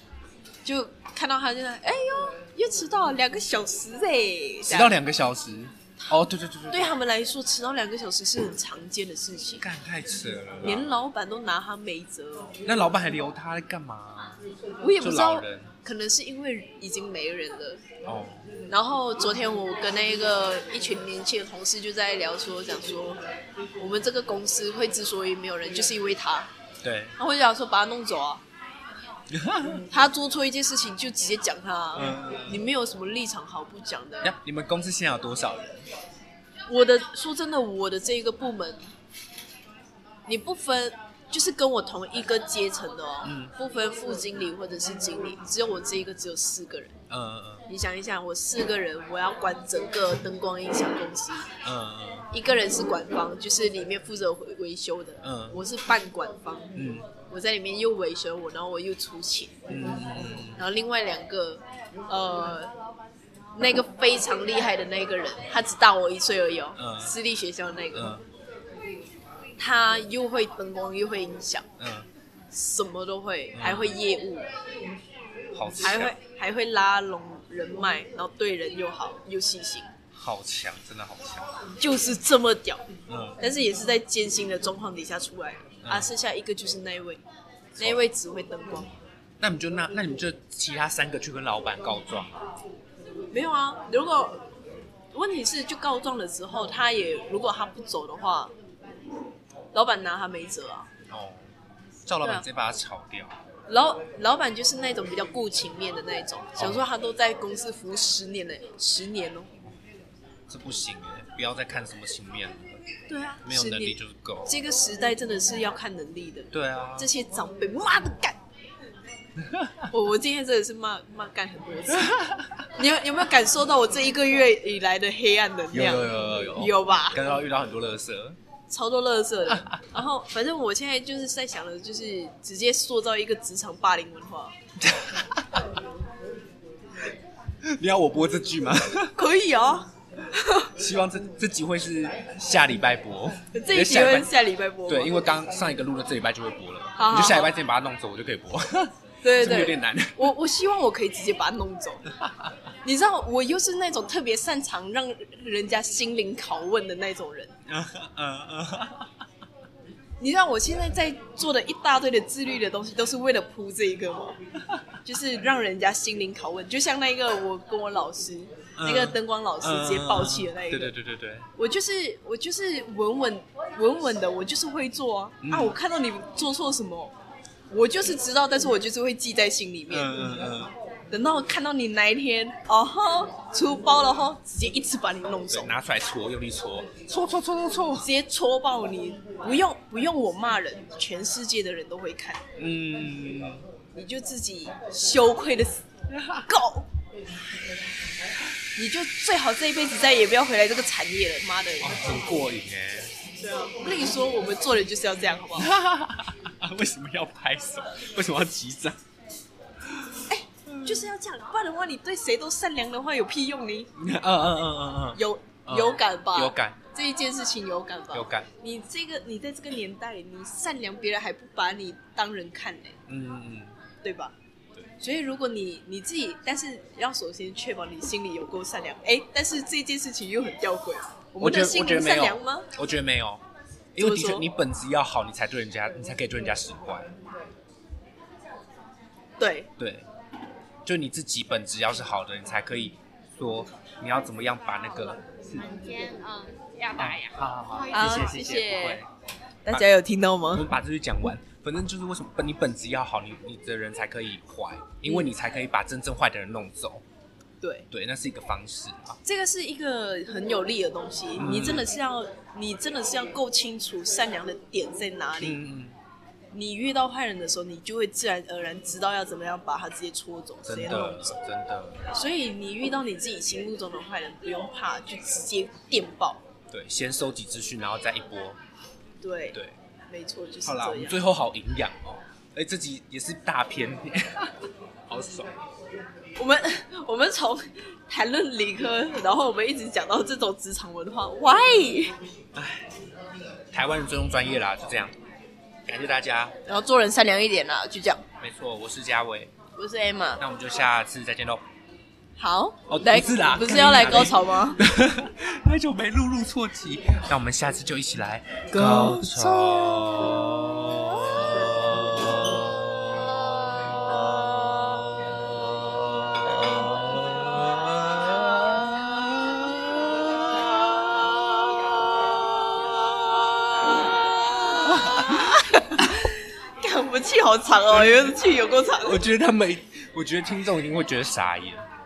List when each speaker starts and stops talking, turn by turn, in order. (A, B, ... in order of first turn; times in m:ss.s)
0:00.6-0:05.0 A
0:04.6-0:06.9 B
0:06.7-0:09.6 A
0:09.6-0:10.9 B
0:10.6-0:12.6 A
0:12.6-0:14.4 B
0:14.8-0:17.8 A
0:15.0-0:15.7 B
0:18.0-0:18.5 B
0:18.7-0:23.2 A
0:23.8-0:26.5 A
0:26.8-0:27.1 B
0:27.2-0:28.4 A
0:29.3-0:29.8 B
0:29.9-0:34.3 A
0:31.9-0:32.6 B
0:34.2-0:35.8 B
0:36.7-0:38.9 A
0:40.3-0:47.0 A
0:43.2-0:43.5 B
0:47.1-0:47.6 B
0:47.7-0:51.5 A
0:51.6-0:52.3 B
0:52.3-0:59.6 A
0:55.2-0:55.6 B
0:56.7-0:57.1 B
0:59.7-1:00.6 B
1:00.6-1:02.7 A
1:03.5-1:08.1 A
1:06.8-1:07.1 B
1:07.9-1:08.2 B
1:09.6-1:11.7 A
1:11.8-1:12.1 B
1:12.5-1:14.5 A
1:13.5-1:14.0 B
1:15.5-1:16.1 B
1:15.8-1:19.9 A
1:20.1-1:21.6 B
1:21.8-1:22.9 A
1:23.1-1:23.4 B
1:23.4-1:27.2 A
1:25.8-1:26.1 B
1:27.7-1:28.0 B
1:27.8-1:28.9 A
1:29.4-1:32.4 B
1:33.3-1:34.4 A
1:35.1-1:38.5 A
1:39.7-1:40.9 A
1:41.1-1:41.5 B
1:42.0-1:43.4 B
1:43.7-1:49.5 A
1:46.6-1:46.8 B
1:50.5-1:52.8 B
1:53.1-1:58.4 A
1:53.4-1:54.5 B
1:56.5-1:57.1 B
1:59.4-1:59.9 B
1:59.9-2:02.2 A
2:02.1-2:02.5 B
2:02.7-2:07.2 A
2:05.7-2:08.4 B
2:08.7-2:14.5 A
2:14.8-2:15.6 B
2:17.6-2:19.1 B
2:19.1-2:20.7 A
2:20.8-2:24.3 B
2:23.5-2:25.2 A
2:24.9-2:30.3 B
2:27.0-2:27.5 A
2:29.2-2:32.1 A
2:32.8-2:37.5 A
2:37.7-2:39.1 B
2:40.2-2:44.4 A
2:45.0-2:50.9 A
2:48.8-2:51.5 B
2:51.6-2:57.1 A
2:55.4-2:55.8 B
2:57.7-3:00.1 A
2:59.9-3:00.7 B
3:01.1-3:05.7 A
3:05.5-3:08.1 B
3:08.0-3:12.4 A
3:12.6-3:13.6 B
3:13.9-3:15.8 A
3:16.2-3:16.4 B
3:16.4-3:16.9 A
3:18.8-3:22.0 A
3:21.8-3:23.1 B
3:23.4-3:25.7 A
3:25.5-3:29.0 B
3:30.3-3:33.9 A
3:30.7-3:31.1 B
3:34.0-3:36.8 B
3:35.1-3:43.0 A
3:38.1-3:38.5 B
3:43.1-3:43.7 B
3:44.0-3:44.3 A
3:45.0-3:52.7 A
3:51.4-3:53.4 B
3:53.9-3:57.1 B
3:54.0-3:54.5 A
3:59.4-3:59.7 A
3:59.8-4:00.1 B
4:00.8-4:05.6 B
4:05.5-4:08.4 C
4:07.0-4:09.1 B
4:07.9-4:09.0 A
4:09.6-4:10.7 A
4:10.5-4:17.0 B
4:17.6-4:17.9 A
4:17.9-4:19.2 B
4:19.2-4:25.6 A
4:21.4-4:21.9 B
4:25.4-4:26.0 B
4:26.5-4:31.4 A
4:30.6-4:32.0 B
4:32.1-4:36.4 A
4:36.7-4:38.6 B
4:39.2-4:39.6 A
4:40.1-4:41.2 A
4:40.6-4:45.5 B
4:46.4-4:52.1 A
4:52.5-4:52.9 B
4:53.7-4:55.1 B
4:55.8-4:56.5 B
4:56.6-4:58.2 A
4:58.4-4:59.5 B
4:59.7-5:00.4 A
5:00.4-5:01.6 B
5:02.4-5:04.8 A
5:02.9-5:24.0 B
5:08.7-5:10.2 A
5:22.9-5:29.2 A
5:24.8-5:26.1 B
5:27.9-5:28.4 B
5:29.0-5:31.9 B